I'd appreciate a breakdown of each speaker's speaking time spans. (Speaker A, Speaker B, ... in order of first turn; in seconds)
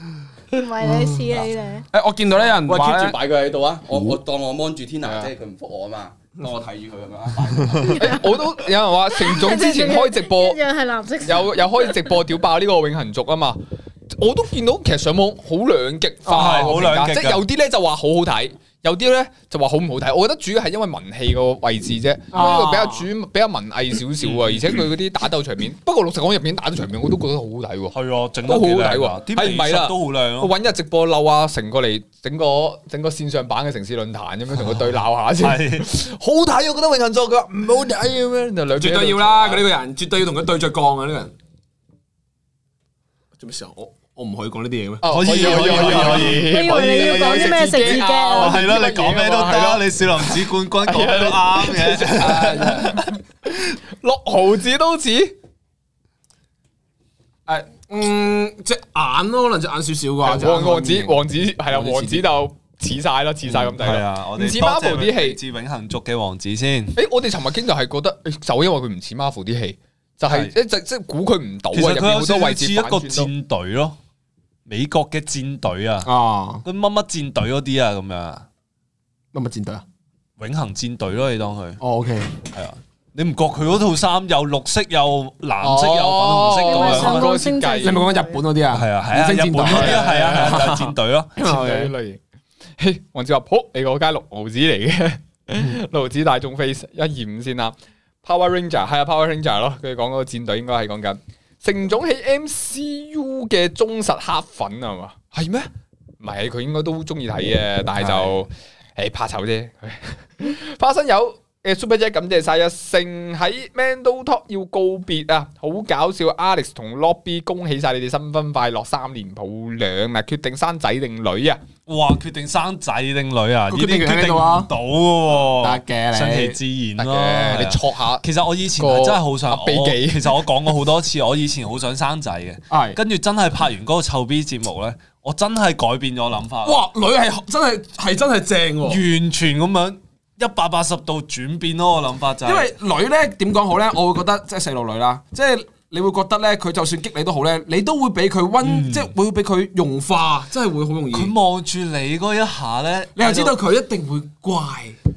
Speaker A: 0.5-1.9, 7.8-8.4, 9.1-12.1, 46.3-48.5, 86.6-88.4
Speaker B: 0.9-1.2, 1.9-3.2, 16.2-16.8, 22.3-23.1, 38.8-41.3, 43.3-46.4, 52.0-53.1, 57.5-62.2, 76.0-76.6, 79.3-79.8, 81.8-82.3, 86.0-86.6, 87.8-91.9, 95.5-95.8, 123.7-124.7, 125.5-126.6, 132.7-133.0, 136.6-139.0, 142.4-151.3, 153.2-155.0
Speaker C: 2.5-8.1
Speaker D: 7.8-10.6, 11.2-39.6, 45.0-55.4, 60.2-65.4, 66.9-73.3, 85.6-88.0, 89.6-90.8, 91.4-92.2, 92.8-121.6, 127.0-130.5
Speaker E: 16.3-17.4, 24.2-24.8, 27.9-30.5, 35.4-35.9, 45.0-52.8, 63.5-67.0, 70.3-70.5, 71.7-74.0, 74.7-76.1, 76.6-78.5, 80.4-81.8, 82.4-87.3, 88.7-91.3, 108.0-108.4, 121.9-136.8, 138.8-142.7, 148.6-149.1, 151.1-153.6